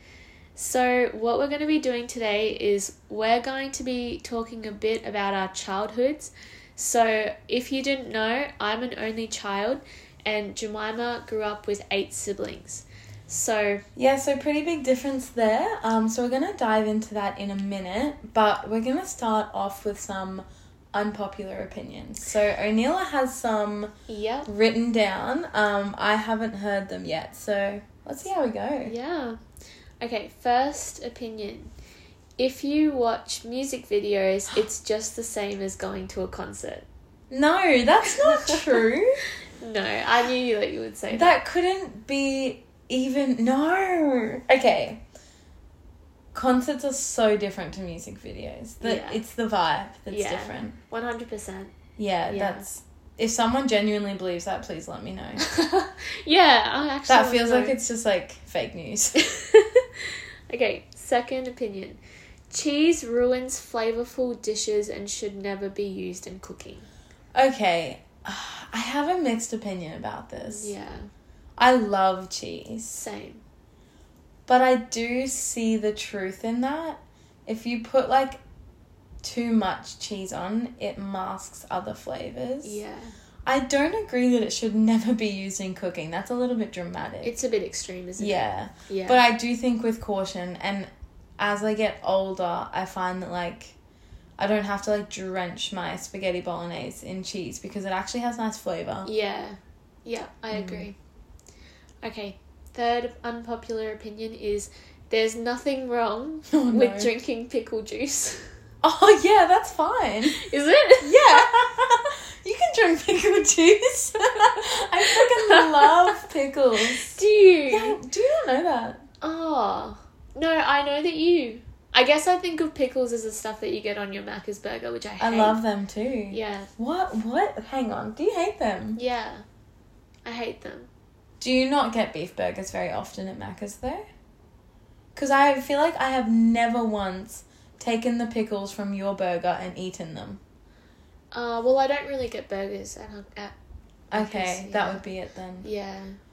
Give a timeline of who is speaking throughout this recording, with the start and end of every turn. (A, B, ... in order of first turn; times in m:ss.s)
0:00.6-0:13.8 A
0:14.0-0:23.9 B
0:24.1-0:24.5 A
0:24.4-0:28.9 B
0:28.8-0:29.4 A
0:30.0-0:31.7 A
0:32.4-0:36.8 A
0:37.3-0:39.2 B
0:38.2-0:38.6 A
0:39.6-0:41.4 A
0:41.1-0:45.0 B
0:46.3-0:50.8 B
0:48.8-0:49.2 A
0:50.1-0:51.7 A
0:52.0-0:55.4 B
0:52.3-0:52.6 A
0:55.4-0:57.8 A
0:57.1-0:59.2 B
0:59.2-1:02.0 A
1:02.5-1:06.9 A
1:07.3-1:10.7 B
1:10.4-1:11.1 A
1:11.6-1:13.0 B
1:12.9-1:13.4 A
1:14.5-1:18.4 B
1:19.2-1:22.8 B
1:22.6-1:23.1 A
1:23.4-1:27.3 B
1:27.2-1:29.2 A
1:28.2-1:33.8 B
1:34.4-1:39.1 B
1:39.0-1:41.0 A
1:40.5-1:40.9 B
1:42.0-1:48.5 A
1:46.5-1:47.1 B
1:48.8-1:50.4 B
1:50.3-1:51.5 A
1:51.0-1:57.2 B
1:54.2-1:56.2 A
1:56.8-1:58.0 A
1:57.7-1:59.0 B
1:59.2-2:05.6 A
2:05.2-2:09.0 B
2:06.3-2:06.7 A
2:09.0-2:09.4 A
2:10.2-2:10.9 A
2:11.4-2:14.0 B
2:15.1-2:20.4 B
2:21.3-2:23.5 A
2:24.1-2:25.7 B
2:24.1-2:25.0 A
2:25.6-2:26.2 A